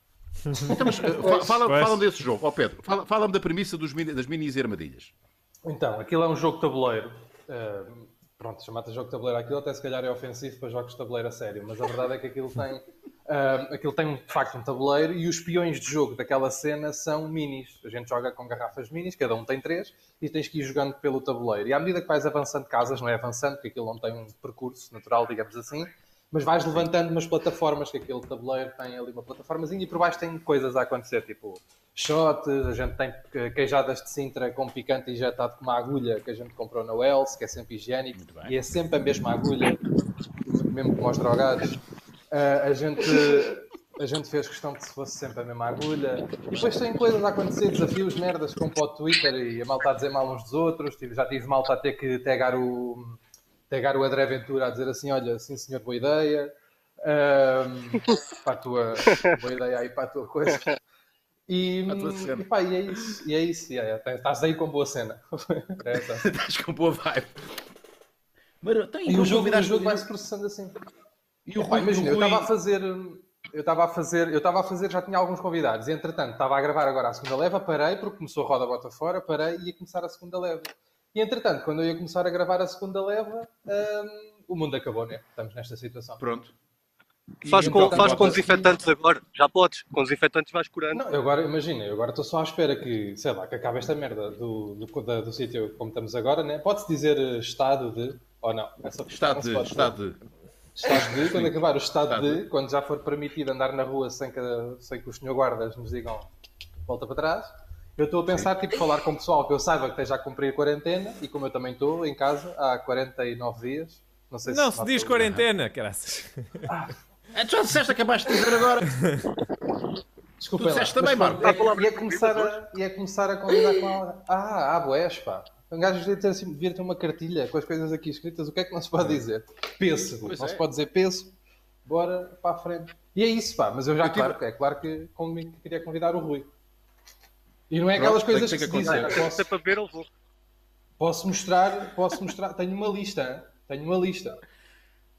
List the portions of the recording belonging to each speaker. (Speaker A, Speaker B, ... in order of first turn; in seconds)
Speaker A: 0.5-0.8, 1.6-2.0, 114.5-116.7
Speaker B: 0.6-5.1, 38.1-38.5, 61.9-62.5, 65.9-67.6, 68.6-70.1, 71.5-72.5, 86.2-86.5, 87.4-88.7, 99.1-100.2, 100.8-102.4, 117.3-119.0, 120.6-121.7, 130.2-130.6, 134.0-134.4, 137.9-139.2
Speaker C: 5.7-39.8, 40.5-41.8, 42.3-60.7, 61.5-66.3, 69.1-70.8, 71.6-86.2, 87.5-88.7, 90.9-100.0, 100.8-106.3, 106.9-115.4, 120.4-136.5, 137.7-139.5, 141.0-144.4
Speaker D: 87.5-91.0, 121.4-122.5, 138.8-140.1